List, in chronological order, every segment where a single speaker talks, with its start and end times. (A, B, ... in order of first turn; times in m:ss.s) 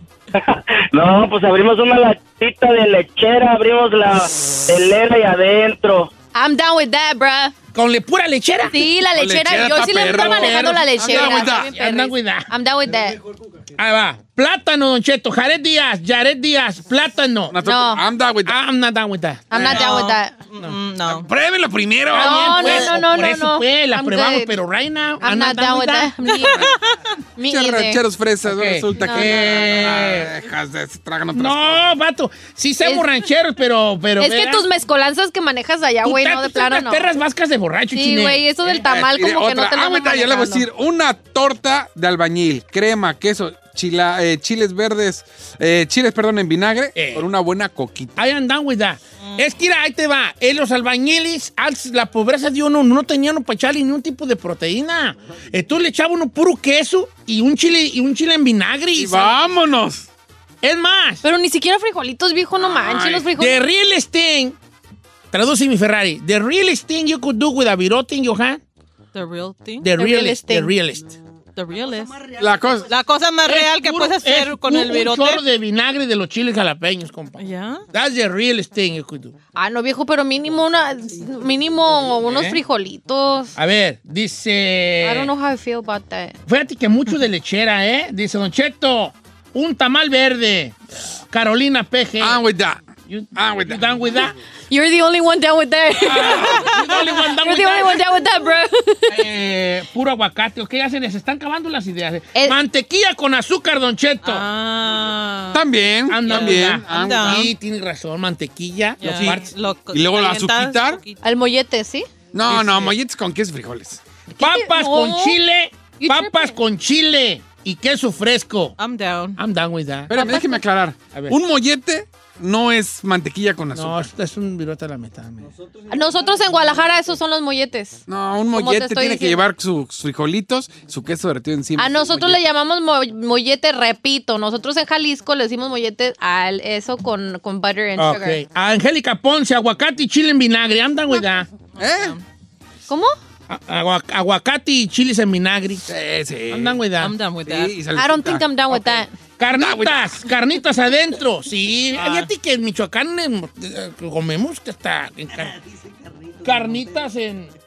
0:00.3-0:06.1 A
0:06.3-0:07.5 B
0:07.7-0:08.9 C
0:08.7-0:13.2 B
0:09.1-0:11.7 D
0:09.9-0:12.5 C
0:13.8-0:17.6 C
0:17.5-0:18.6 D
0:17.6-0:18.0 B
0:18.4-0:19.8 C
0:19.5-0:20.3 B
0:19.6-0:19.8 D
0:19.6-0:21.3 E
0:21.0-0:22.9 D
0:22.1-0:26.1 C
0:22.1-0:24.5 B
0:25.2-0:26.7 B
0:27.4-0:28.0 B
0:27.4-0:31.9 D
0:28.4-0:30.3 C
0:29.0-0:29.5 B
0:31.3-0:34.7 C
0:34.2-0:37.1 B
0:36.0-0:38.5 C
0:37.9-0:40.6 B
0:38.7-0:48.2 D
0:46.9-0:47.2 C
0:48.2-0:59.4 C
0:58.9-1:00.1 D
1:00.6-1:01.2 C
1:01.2-1:03.6 B
1:02.6-1:03.3 D
1:03.4-1:04.6 C
1:05.3-1:08.6 C
1:09.1-1:09.9 E
1:09.8-1:11.2 C
1:10.0-1:10.7 B
1:11.6-1:12.3 E
1:12.4-1:12.9 D
1:12.8-1:15.4 E
1:13.4-1:19.3 C
1:17.4-1:17.8 E
1:19.5-1:23.5 B
1:22.2-1:22.6 C
1:23.6-1:25.3 C
1:25.0-1:26.4 B
1:26.5-1:30.8 C
1:31.3-1:32.4 C
1:32.2-1:32.8 D
1:33.1-1:34.3 C
1:33.3-1:33.8 D
1:34.7-1:36.8 B
1:36.0-1:38.0 C
1:37.4-1:39.1 B
1:39.1-1:44.4 C
1:44.2-1:45.6 E
1:45.5-1:47.5 D
1:46.1-1:49.5 C
1:46.3-1:47.5 E
1:49.0-1:51.2 E
1:49.0-1:51.0 D
1:51.2-1:52.1 B
1:52.3-1:54.0 D
1:52.5-1:52.9 C
1:54.3-1:55.4 B
1:54.4-1:58.7 C
1:56.0-1:56.6 B
1:58.8-1:59.4 E
1:59.4-2:00.2 C
2:00.1-2:04.1 D
2:00.1-2:00.6 B
2:03.7-2:05.5 C
2:05.9-2:08.0 B
2:08.1-2:12.4 D
2:08.5-2:09.4 B
2:11.8-2:18.4 B
2:18.0-2:21.5 C
2:21.8-2:22.2 D
2:21.8-2:22.2 E
2:22.9-2:23.1 B
2:23.5-2:25.8 C
2:25.9-2:26.8 D
2:26.5-2:27.1 C
2:27.0-2:27.8 E
2:27.4-2:28.4 D
2:28.0-2:29.1 B
2:28.7-2:35.6 C
2:29.6-2:30.2 D
2:36.4-2:37.5 C